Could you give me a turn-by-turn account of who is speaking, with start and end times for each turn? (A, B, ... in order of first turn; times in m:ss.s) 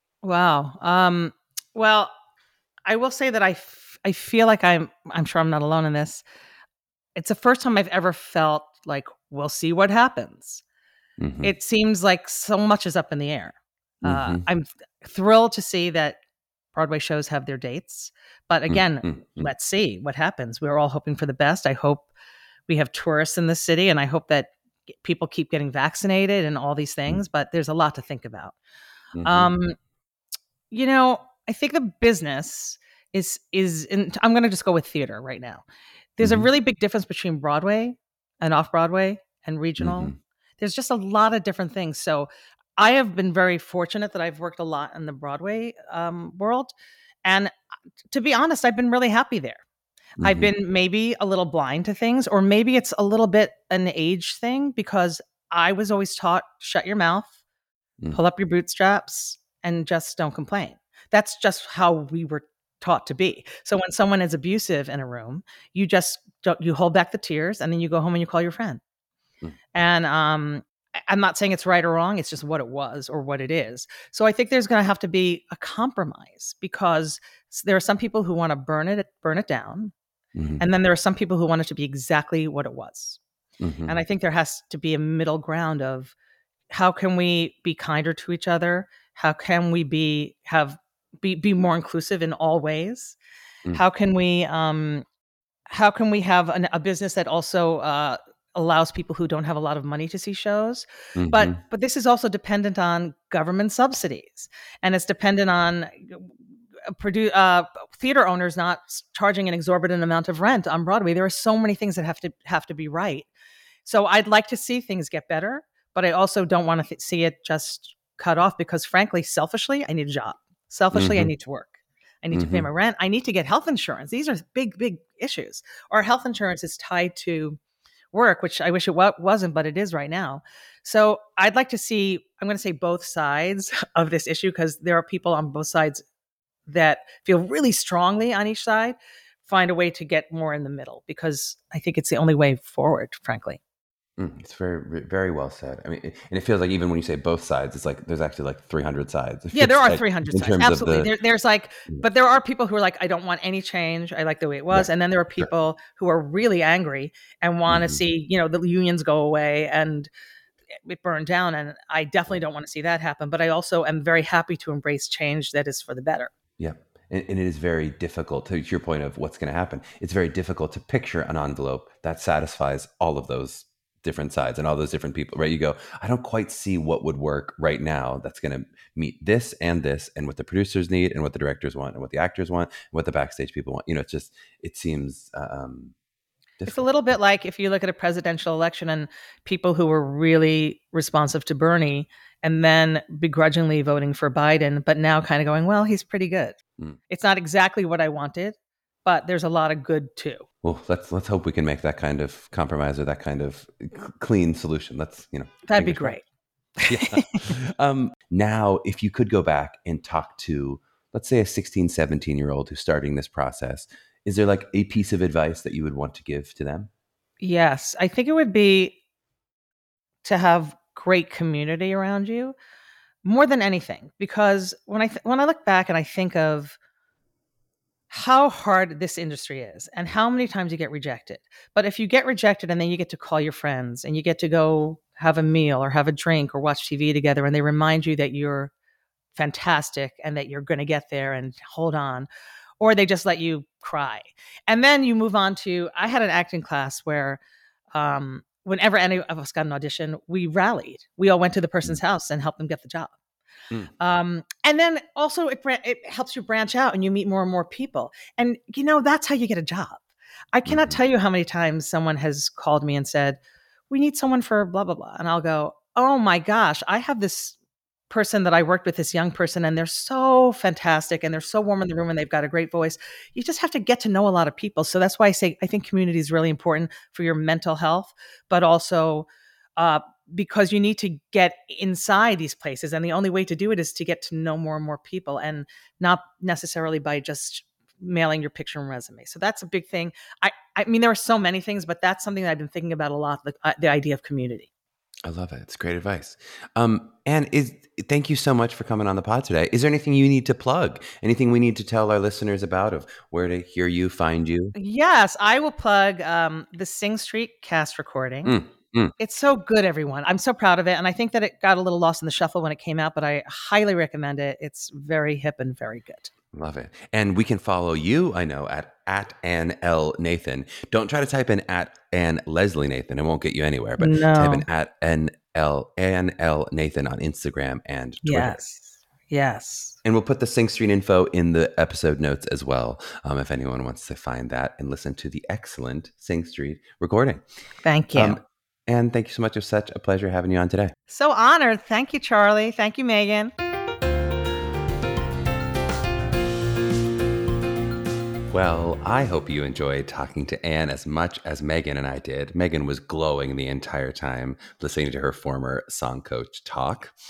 0:00.2-0:02.1 A
0:02.9-0:06.2 A
0:07.2-0:10.6 A
0:11.2-0:11.5 B
0:11.4-0:16.2 A
0:14.0-0:14.4 B
0:16.7-0:22.1 A
0:18.7-0:19.5 B
0:22.7-0:28.6 A
0:29.1-0:29.5 B
0:29.2-0:29.8 A
0:30.7-0:35.6 A
0:36.2-0:46.7 A
0:36.2-0:36.5 B
0:39.8-0:40.2 B
0:47.2-0:47.5 A
0:48.1-0:49.6 A
0:50.2-0:50.5 B
0:50.2-0:57.3 A
0:58.1-1:08.8 A
1:09.7-1:19.9 A
1:20.3-1:20.6 B
1:20.6-1:23.2 A
1:23.6-1:24.0 B
1:23.8-1:26.1 A
1:26.7-1:33.2 A
1:33.7-1:35.0 A
1:35.7-1:46.3 A
1:41.2-1:41.6 B
1:46.9-1:53.3 A
1:53.8-2:07.6 A
2:00.9-2:01.3 B
2:02.3-2:02.7 B
2:08.1-2:16.0 A
2:16.7-2:23.6 A
2:24.2-2:31.1 B
2:29.5-2:40.1 A
2:34.7-2:35.5 B
2:37.7-2:38.0 B
2:40.8-2:46.3 A
2:46.6-3:05.9 B
3:06.6-3:06.9 B
3:06.6-3:16.6 A
3:17.1-3:20.4 A
3:20.6-3:26.2 B
3:25.7-3:26.2 A
3:26.8-3:36.9 B
3:26.9-3:27.3 A
3:37.4-3:39.0 A
3:40.2-3:42.6 A
3:43.2-3:46.8 A
3:48.1-3:58.7 A
3:59.3-4:02.3 A
4:02.8-4:07.4 A
4:07.9-4:13.1 A
4:14.0-4:20.0 A
4:20.5-4:27.5 A
4:20.6-4:21.0 B
4:28.1-4:54.7 A
4:55.2-5:04.7 B
5:04.7-5:08.5 A
5:08.4-5:09.1 B
5:09.2-5:16.3 A
5:16.5-5:28.7 B
5:24.0-5:24.6 A
5:28.2-5:30.0 A
5:30.0-5:37.4 B
5:37.8-5:38.4 A
5:38.1-5:40.9 B
5:41.1-5:43.5 A
5:48.5-5:57.1 B